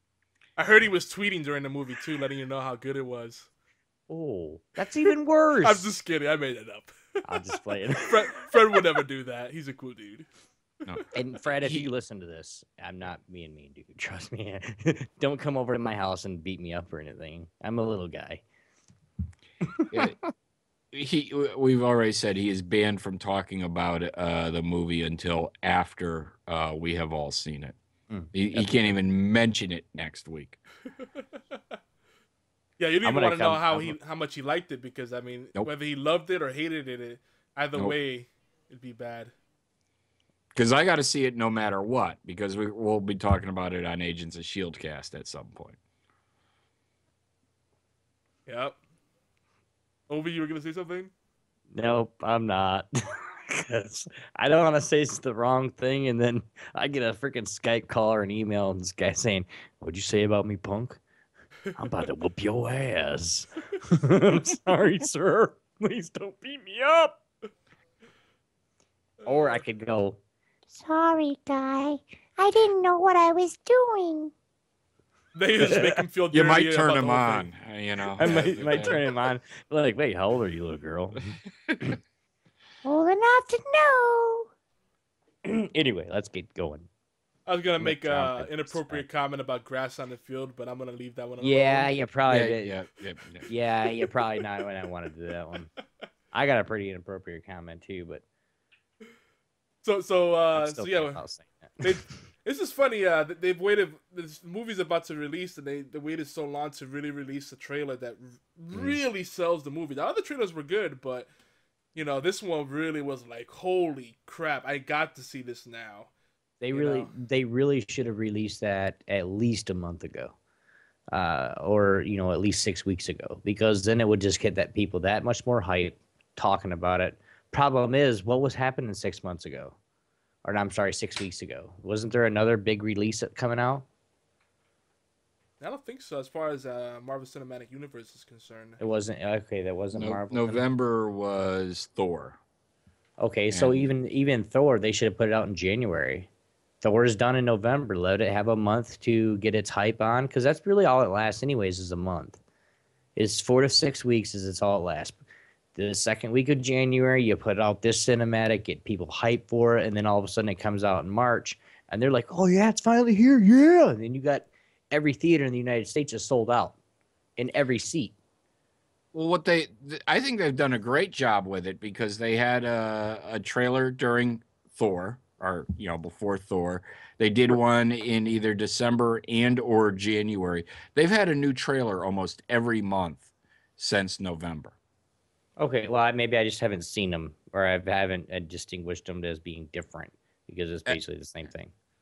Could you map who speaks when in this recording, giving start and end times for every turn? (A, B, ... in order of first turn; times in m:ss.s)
0:00.6-0:03.5 A
0:04.1-0:05.9 B
0:05.6-0:07.4 A
0:07.2-0:08.2 B
0:08.0-0:10.3 A
0:11.1-0:18.4 B
0:19.6-0:19.9 B
0:19.9-0:20.2 C
0:20.9-0:27.7 C
0:28.1-0:28.9 B
0:28.3-0:30.6 C
0:32.8-0:39.3 A
0:33.0-0:33.9 B
0:40.5-0:45.8 C
0:48.4-0:48.8 A
0:50.1-0:51.1 A
0:51.7-1:01.0 B
1:01.8-1:07.2 B
1:09.2-1:10.2 B
1:10.7-1:14.3 D
1:15.3-1:17.5 A
1:15.6-1:16.0 B
1:16.3-1:19.0 C
1:18.2-1:21.9 B
1:18.2-1:19.1 A
1:22.8-1:24.5 D
1:25.4-1:26.9 B
1:27.5-1:31.9 A
1:27.8-1:29.0 B
1:31.4-1:32.7 B
1:32.3-1:33.5 C
1:33.5-1:35.7 B
1:36.3-1:38.2 B
1:39.8-1:41.2 A
1:40.5-1:41.9 B
1:41.8-1:51.3 A
1:51.9-1:56.1 A
1:56.6-2:00.3 B
1:56.7-1:57.1 A
2:01.1-2:09.8 B
2:10.4-2:13.8 B
2:15.6-2:18.8 A
2:18.8-2:20.6 B
2:19.9-2:22.4 C
2:23.2-2:26.3 B
2:23.5-2:23.9 C
2:26.8-2:32.4 B
2:33.2-2:35.2 B
2:35.8-2:46.7 B
2:47.4-2:48.1 B
2:49.1-3:04.7 C
3:05.6-3:11.7 B